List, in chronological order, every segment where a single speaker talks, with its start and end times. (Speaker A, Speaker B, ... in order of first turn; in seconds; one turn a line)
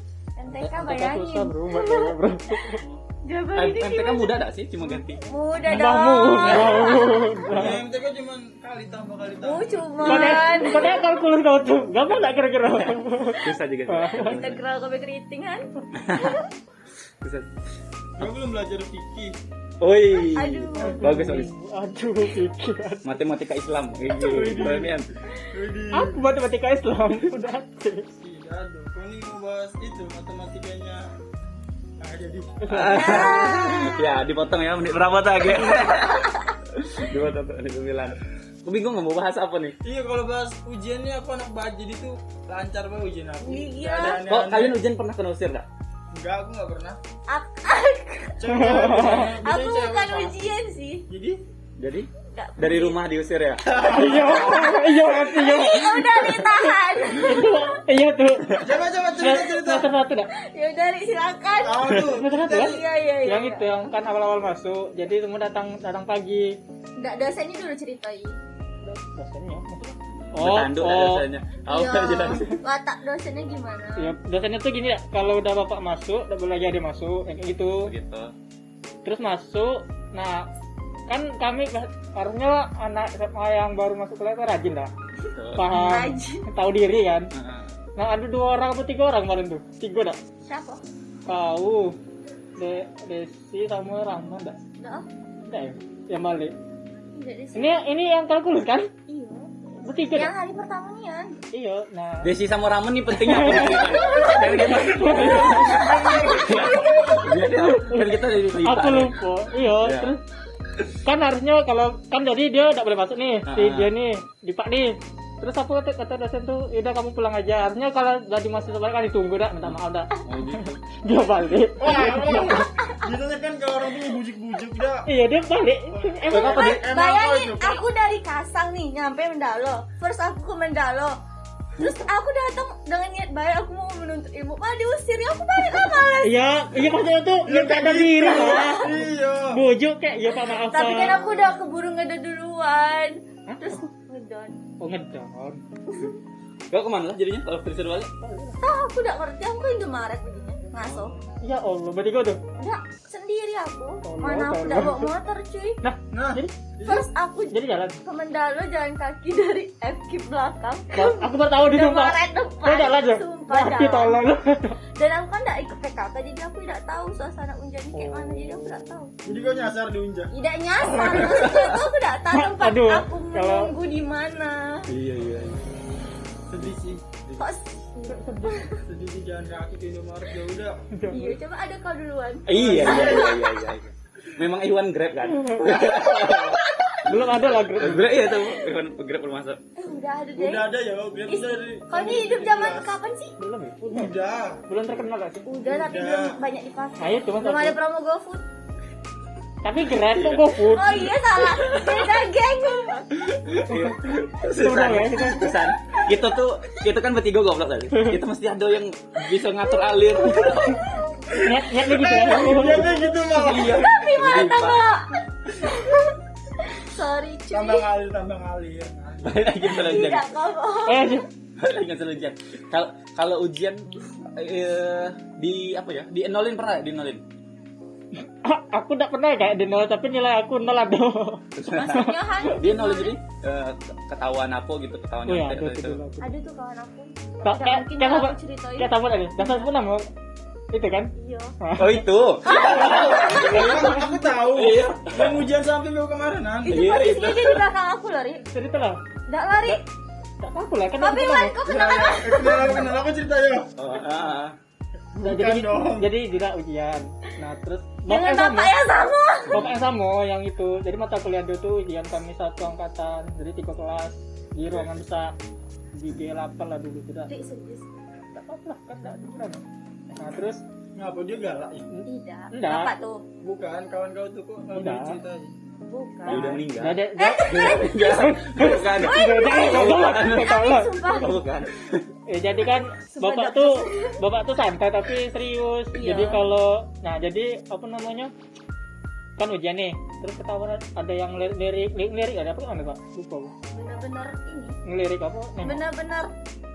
Speaker A: 0.4-4.3
Speaker B: 0.5-2.8
Speaker C: 3.5-5.2
Speaker A: 5.2-7.4
Speaker B: 5.7-7.8
Speaker D: 7.5-10.4
Speaker A: 9.4-11.1
Speaker B: 10.0-14.4
Speaker C: 12.8-14.6
Speaker A: 14.2-16.4
Speaker C: 15.9-16.4
Speaker C: 17.2-17.5
Speaker D: 18.2-19.3
Speaker C: 19.8-21.5
Speaker A: 20.1-21.1
Speaker B: 20.8-23.1
Speaker C: 23.0-25.1
Speaker D: 24.1-26.2
Speaker B: 25.9-28.1
Speaker D: 28.1-31.1
Speaker D: 32.0-33.4
Speaker B: 32.6-33.2
Speaker C: 32.7-39.8
Speaker A: 32.9-34.1
Speaker D: 39.8-44.8
Speaker A: 43.4-44.2
Speaker C: 44.2-45.7
Speaker D: 46.1-47.0
Speaker A: 47.3-51.0
Speaker D: 48.4-50.4
Speaker B: 48.5-49.2
Speaker D: 51.1-51.4
Speaker C: 51.8-54.3
Speaker A: 52.3-53.0
Speaker D: 53.6-54.8
Speaker B: 53.8-58.6
Speaker A: 54.5-57.8
Speaker D: 58.5-59.9
Speaker B: 59.2-60.3
Speaker A: 60.3-62.0
Speaker D: 61.6-62.8
Speaker B: 62.0-66.5
Speaker A: 62.5-63.9
Speaker A: 67.0-68.4
Speaker B: 68.8-71.2
Speaker C: 70.1-72.6
Speaker A: 71.7-74.1
Speaker B: 74.0-77.9
Speaker C: 77.8-78.3
Speaker B: 79.0-80.5
Speaker B: 81.1-84.9
Speaker C: 85.3-85.8
Speaker B: 85.5-87.3
Speaker A: 85.7-86.5
Speaker C: 87.3-87.7
Speaker B: 88.0-90.2
Speaker A: 90.4-90.8
Speaker B: 91.3-92.0
Speaker B: 92.6-94.6
Speaker A: 94.8-95.0
Speaker B: 95.4-96.5
Speaker A: 97.1-97.8
Speaker B: 97.5-98.9
Speaker A: 99.1-101.4
Speaker B: 99.8-100.3
Speaker B: 101.5-102.3
Speaker C: 102.2-109.2
Speaker B: 103.1-106.5
Speaker A: 103.7-107.3
Speaker B: 107.6-110.2
Speaker C: 109.8-110.2
Speaker B: 111.0-122.7
Speaker C: 113.5-113.9
Speaker C: 119.6-120.8
Speaker D: 121.8-125.1
Speaker A: 122.6-123.0
Speaker B: 125.0-126.8
Speaker D: 125.9-127.8
Speaker C: 126.3-126.7
Speaker A: 126.4-131.2
Speaker A: 131.8-136.3
Speaker B: 136.2-139.0
Speaker D: 137.4-139.6
Speaker A: 138.3-138.9
Speaker B: 139.5-141.5
Speaker A: 140.4-144.6
Speaker B: 143.5-143.8
Speaker B: 144.8-145.6
Speaker C: 146.7-148.1
Speaker B: 148.2-148.6
Speaker A: 148.6-151.1
Speaker C: 150.8-151.2
Speaker B: 151.4-152.4
Speaker A: 152.6-155.8
Speaker B: 154.0-155.1
Speaker B: 155.8-156.5
Speaker D: 156.1-157.1
Speaker A: 156.8-164.2
Speaker B: 157.5-158.0
Speaker B: 160.9-164.8
Speaker A: 164.9-169.1
Speaker B: 167.9-168.7
Speaker D: 169.2-171.6
Speaker A: 170.3-174.9
Speaker C: 171.2-171.8
Speaker B: 172.3-173.7
Speaker C: 174.9-175.7
Speaker D: 176.5-177.0
Speaker C: 176.6-177.5
Speaker A: 177.3-178.8
Speaker B: 178.1-178.7
Speaker D: 178.9-180.9
Speaker B: 180.9-181.4
Speaker A: 181.1-183.6
Speaker C: 182.5-186.6
Speaker D: 182.5-183.4
Speaker B: 185.3-185.8
Speaker A: 185.8-187.0
Speaker B: 187.0-188.2
Speaker C: 187.8-189.6
Speaker A: 189.8-190.7
Speaker D: 190.4-192.9
Speaker A: 191.3-193.3
Speaker B: 193.4-194.1
Speaker D: 193.9-194.6
Speaker B: 194.7-195.5
Speaker A: 195.5-198.4
Speaker D: 195.7-196.4
Speaker B: 197.0-197.8
Speaker B: 199.6-201.1
Speaker C: 199.8-200.6
Speaker A: 200.6-203.1
Speaker C: 201.5-202.1
Speaker C: 203.2-210.9
Speaker B: 204.5-205.5
Speaker B: 207.9-208.2
Speaker A: 210.3-211.0
Speaker D: 211.3-214.0
Speaker B: 211.4-212.9
Speaker A: 212.0-217.9
Speaker C: 213.3-214.8
Speaker D: 217.5-219.7
Speaker C: 219.2-220.3
Speaker A: 219.6-221.2
Speaker B: 220.9-221.3
Speaker C: 221.6-227.2
Speaker B: 228.2-232.2
Speaker C: 231.6-236.0
Speaker A: 231.7-233.2
Speaker B: 235.2-236.3
Speaker A: 236.2-239.6
Speaker B: 237.4-240.1
Speaker B: 240.7-244.0
Speaker A: 241.2-241.5
Speaker C: 241.8-243.9
Speaker A: 242.4-244.0
Speaker D: 243.3-246.8
Speaker C: 244.4-245.4
Speaker A: 246.6-248.4
Speaker C: 246.7-247.7
Speaker B: 248.4-249.0
Speaker A: 249.3-249.8
Speaker B: 250.4-251.5
Speaker A: 251.0-252.9
Speaker D: 251.7-253.7
Speaker C: 253.8-254.6
Speaker D: 255.1-256.1
Speaker B: 255.2-258.7
Speaker A: 258.1-259.6
Speaker C: 259.5-259.8
Speaker B: 259.5-265.3
Speaker B: 265.9-267.3
Speaker A: 267.3-267.9
Speaker B: 268.3-270.6
Speaker D: 270.9-271.9
Speaker B: 271.9-272.9
Speaker A: 272.1-273.2
Speaker D: 273.4-275.5
Speaker B: 274.7-275.2
Speaker A: 275.9-276.6
Speaker C: 276.2-282.1
Speaker B: 276.3-281.2
Speaker A: 277.2-278.1
Speaker A: 278.7-281.4
Speaker B: 282.3-288.3
Speaker A: 283.0-284.2
Speaker A: 285.9-286.4
Speaker B: 289.4-293.5
Speaker A: 293.7-294.8
Speaker B: 294.9-295.8
Speaker A: 295.6-296.3